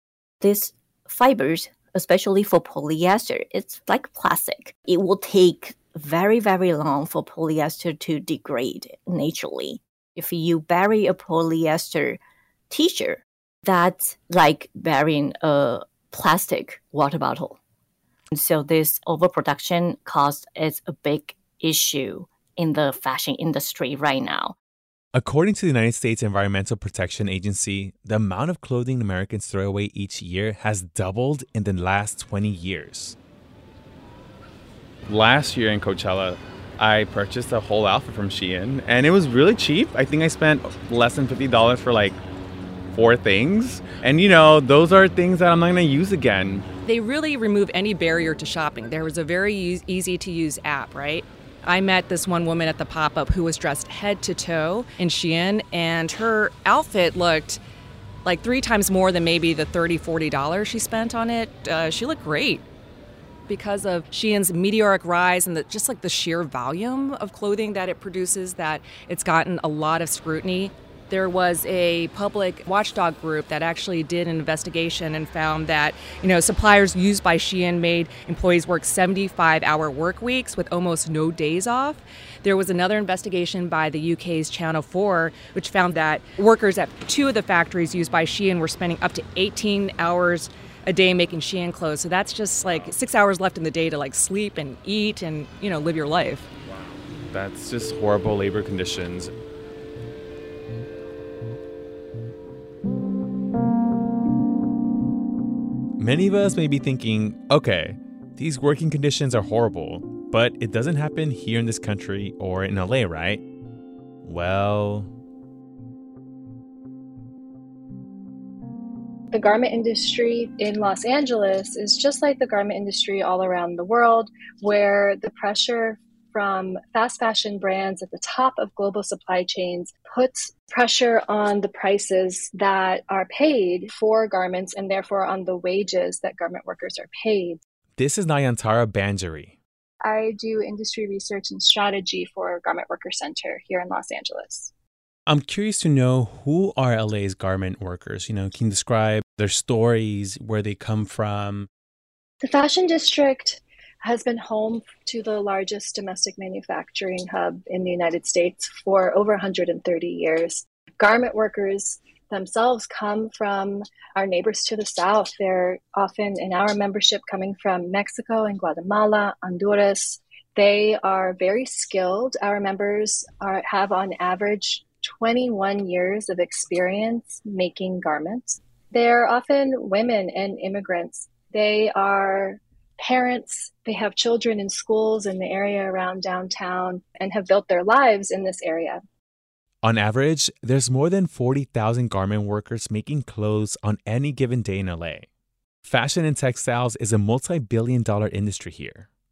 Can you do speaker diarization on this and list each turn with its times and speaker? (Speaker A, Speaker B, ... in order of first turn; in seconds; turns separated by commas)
Speaker A: 0.4-17.6, Speaker A: 18.3-24.6, Speaker B: 25.1-33.2, Speaker C: 35.1-42.1, Speaker C: 43.0-46.6, Speaker B: 44.5-45.1, Speaker D: 46.9-57.6, Speaker D: 58.2-62.7, Speaker D: 63.5-96.5, Speaker B: 97.3-99.3, Speaker B: 106.0-113.4, Speaker B: 114.2-115.1, Speaker E: 119.3-137.6, Speaker B: 138.0-139.6, Speaker E: 140.0-144.7, Speaker B: 145.3-151.7, Speaker E: 152.4-189.0, Speaker B: 189.8-195.3, Speaker B: 195.8-199.1